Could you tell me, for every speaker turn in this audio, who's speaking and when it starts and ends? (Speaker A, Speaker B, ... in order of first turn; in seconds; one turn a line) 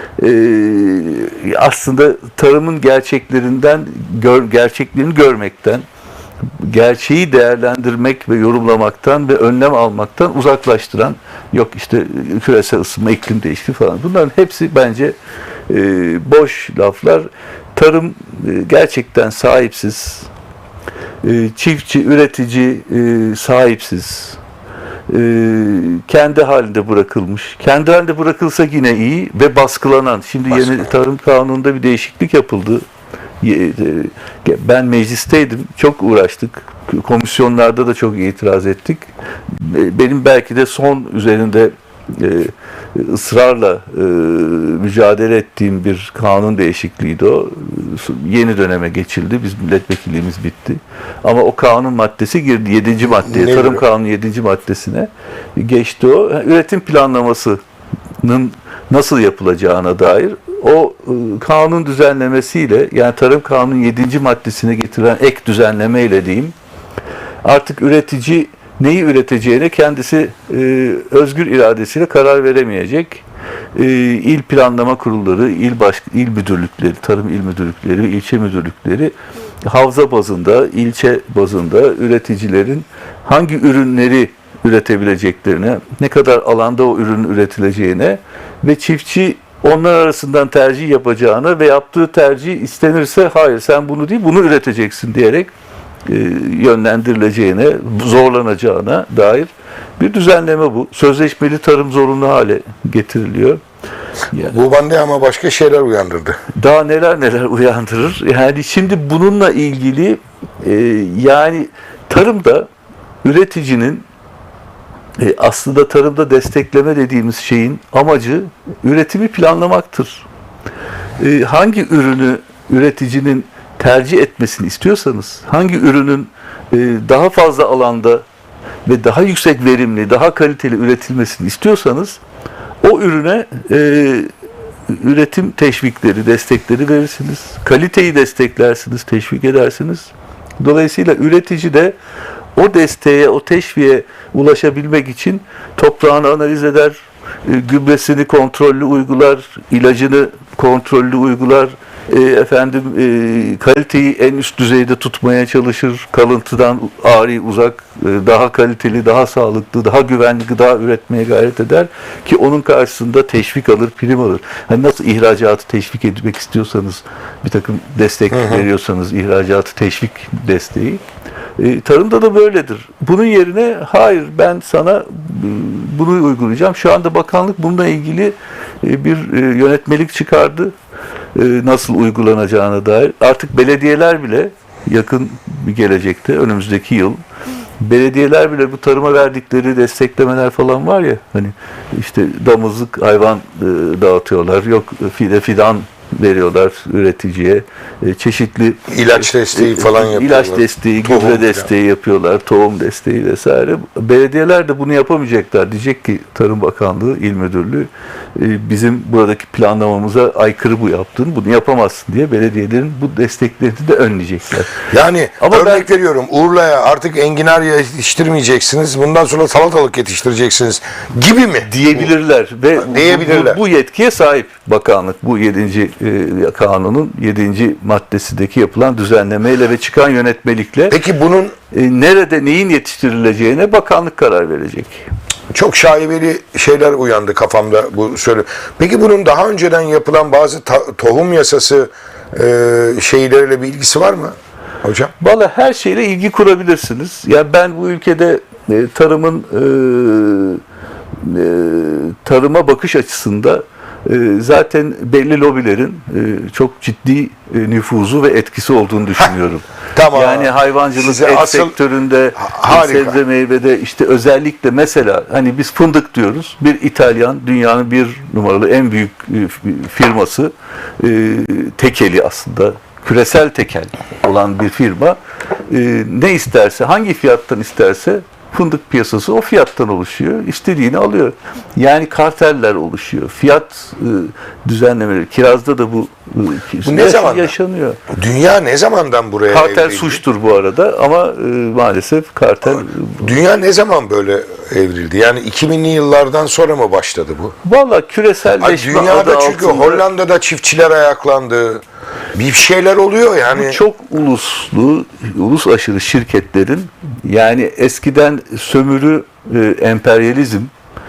Speaker A: 0.2-5.8
Speaker A: 6.6-15.2
Speaker A: 15.7-20.3
Speaker A: 21.2-24.4
Speaker A: 25.1-32.8
Speaker B: 30.5-30.9
Speaker A: 33.4-57.6
Speaker B: 53.0-53.8
Speaker A: 58.2-66.5
Speaker A: 67.4-73.2
Speaker A: 73.8-95.5
Speaker A: 96.1-103.6
Speaker B: 104.4-106.4
Speaker A: 106.5-112.7
Speaker A: 113.2-114.1
Speaker A: 115.2-120.3
Speaker A: 121.2-128.2
Speaker A: 128.9-132.2
Speaker A: 132.8-134.3
Speaker A: 134.9-141.9
Speaker A: 142.6-171.0
Speaker B: 168.3-168.7
Speaker A: 171.6-180.7
Speaker A: 181.3-187.2
Speaker A: 187.8-214.8
Speaker B: 198.9-201.7
Speaker B: 214.9-222.1
Speaker A: 215.4-215.8
Speaker A: 221.7-231.0
Speaker B: 222.8-223.6
Speaker B: 230.9-231.5
Speaker A: 231.7-235.1
Speaker B: 235.5-245.1
Speaker A: 245.2-250.6
Speaker A: 251.2-288.0
Speaker B: 259.9-261.8
Speaker B: 262.4-263.2
Speaker B: 286.9-287.5
Speaker B: 288.1-290.2
Speaker A: 289.5-293.3
Speaker B: 292.7-297.6
Speaker A: 297.6-300.1
Speaker B: 298.6-301.8
Speaker B: 302.3-303.8
Speaker A: 303.5-310.7